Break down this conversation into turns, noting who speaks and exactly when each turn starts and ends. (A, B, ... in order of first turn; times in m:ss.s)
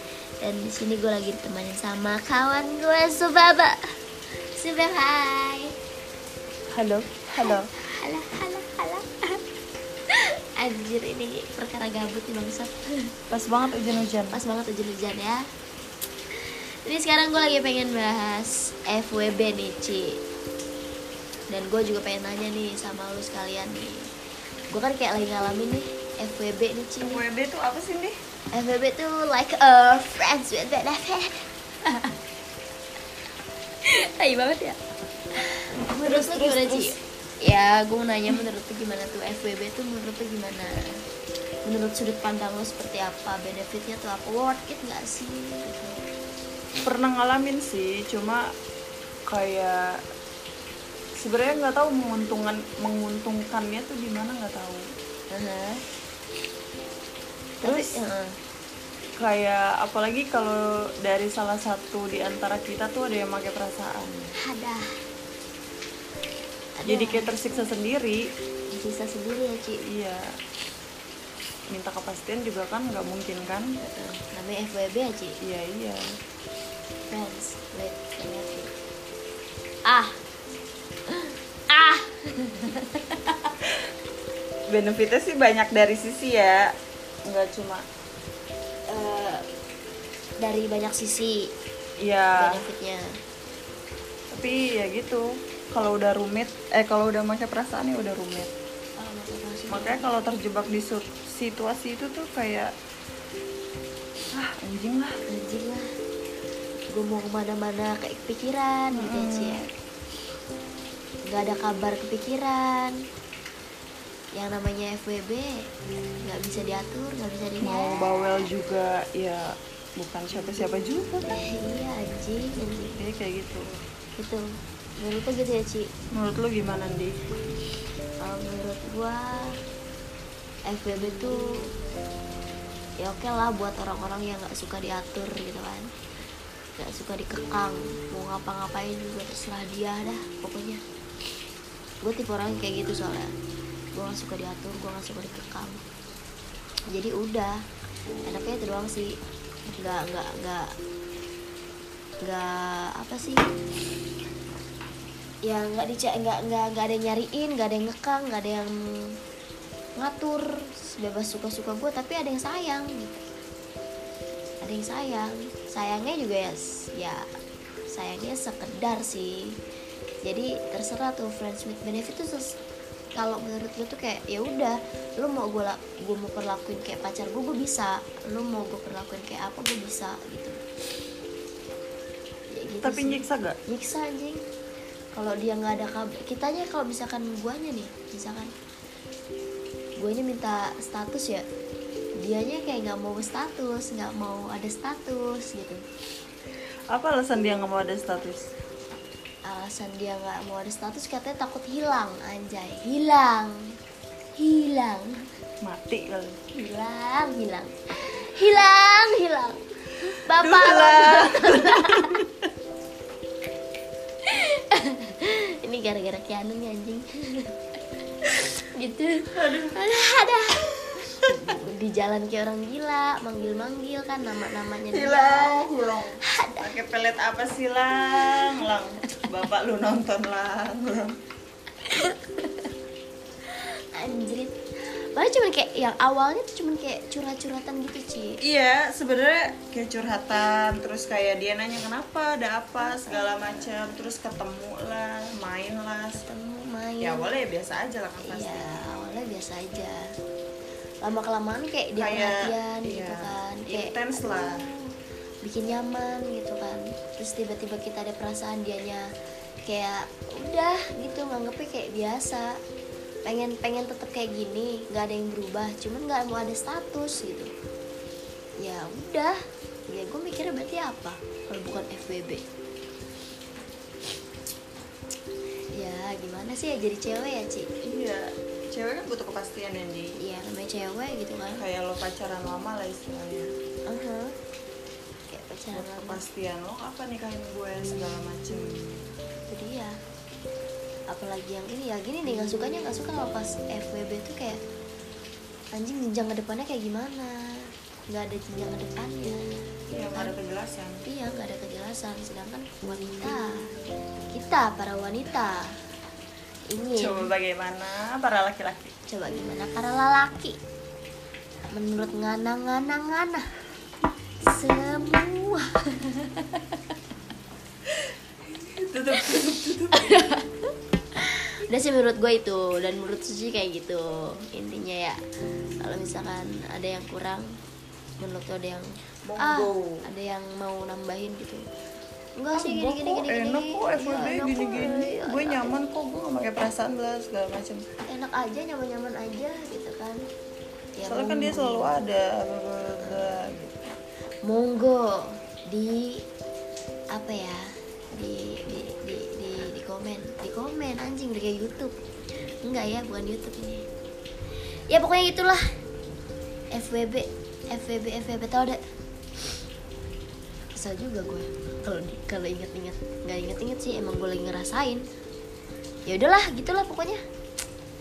0:00.4-0:03.8 A
0:04.4-0:05.7 A
0:06.7-0:07.7 B
0:07.4-0:09.4 A
0:10.1-0:13.1 A
0:13.3-0:14.4 B
0:14.3-0:15.4 A
0:16.4-0:20.2 A
0:21.5-0:24.1 A
0:24.7-0:27.2 A
0:27.1-0:28.2 B
0:28.5-0:32.1 A
0:33.8-0:34.8 A
0:35.4-0:41.0 A
0:36.0-0:37.0 B
0:41.6-0:46.0 A
0:46.8-0:48.5 B
0:49.3-0:50.0 B
0:51.2-0:54.8 B
0:55.3-0:55.8 A
0:57.6-0:58.0 B
0:57.6-0:58.4 A
0:59.2-1:04.3 B
1:04.4-1:04.9 A
1:06.8-1:07.3 A
1:06.8-1:08.3 B
1:08.7-1:09.8 A
1:09.8-1:10.3 B
1:11.7-1:13.7 B
1:13.8-1:15.4 A
1:15.4-1:16.1 B
1:17.1-1:18.7 A
1:19.8-1:20.2 A
1:21.1-1:23.5 A
1:24.7-1:26.7 B
1:27.2-1:27.8 B
1:28.9-1:29.4 A
1:30.4-1:31.5 A
1:32.0-1:32.6 B
1:32.4-1:33.1 A
1:34.3-1:38.5 B
1:39.0-1:40.1 A
1:39.7-1:42.7 B
1:44.3-1:45.2 B
1:45.3-1:45.9 A
1:46.9-1:49.6 A
1:48.9-1:49.6 B
1:51.3-1:53.0 A
1:54.3-1:55.6 A
1:56.2-1:58.2 A
1:57.6-2:01.2 B
2:01.3-2:03.0 A
2:03.0-2:03.7 B
2:04.2-2:05.9 A
2:06.1-2:07.2 B
2:08.2-2:09.6 A
2:10.7-2:11.6 A
2:13.0-2:15.9 A
2:16.8-2:20.8 A
2:22.0-2:23.3 A
2:23.9-2:25.8 A
2:26.9-2:27.6 A
2:28.2-2:29.1 A
2:29.7-2:30.7 A
2:32.2-2:33.4 A
2:35.4-2:39.2 A
2:40.0-2:43.3 A
2:44.6-2:47.2 A
2:47.9-2:49.6 A
2:50.2-2:52.5 A
2:53.1-3:00.6 A
3:02.5-3:04.4 A
3:02.8-3:03.6 B
3:05.1-3:08.5 A
3:10.0-3:11.4 A
3:12.2-3:15.8 A
3:16.9-3:18.5 B
3:19.5-3:23.6 A
3:24.4-3:25.2 A
3:25.6-3:26.4 B
3:26.5-3:32.1 A
3:30.3-3:32.4 B
3:34.2-3:37.5 A
3:38.2-3:45.6 A
3:39.3-3:39.8 B
3:41.0-3:41.4 B
3:44.7-3:51.2 B
3:46.2-3:46.7 A
3:48.2-3:48.7 A
3:51.8-3:52.7 A
3:53.5-3:58.4 A
3:58.4-4:06.2 B
4:02.8-4:03.7 A
4:06.1-4:07.3 A
4:07.0-4:08.8 B
4:08.2-4:10.1 A
4:11.0-4:19.1 A
4:12.0-4:14.6 B
4:19.6-4:22.6 A
4:23.2-4:27.5 A
4:28.6-4:29.4 A
4:29.9-4:32.4 A
4:35.7-4:37.7 A
4:37.8-4:40.2 B
4:40.2-4:41.6 A
4:41.6-4:43.5 B
4:43.9-4:44.3 A
4:45.3-4:46.2 A
4:45.7-4:49.0 B
4:49.5-4:50.0 A
4:51.1-4:54.6 A
4:55.7-5:00.3 A
4:59.9-5:01.0 B
5:01.0-5:03.7 A
5:04.3-5:05.7 A
5:06.7-5:07.3 A
5:06.9-5:08.9 B
5:09.1-5:10.6 A
5:11.7-5:13.5 A
5:14.4-5:16.8 A
5:18.1-5:20.3 B
5:19.9-5:20.6 A
5:21.2-5:25.2 A
5:25.8-5:27.5 A
5:28.2-5:31.6 A
5:29.2-5:30.0 B
5:32.4-5:35.8 A
5:32.5-5:37.8 B
5:38.1-5:40.2 A
5:41.0-5:41.9 A
5:41.0-5:43.9 B
5:43.0-5:43.6 A
5:44.4-5:46.2 A
5:47.1-5:51.9 A
5:52.6-5:53.8 A
5:54.9-5:55.6 A
5:56.7-5:58.8 A
6:00.8-6:05.0 A
6:06.0-6:07.2 A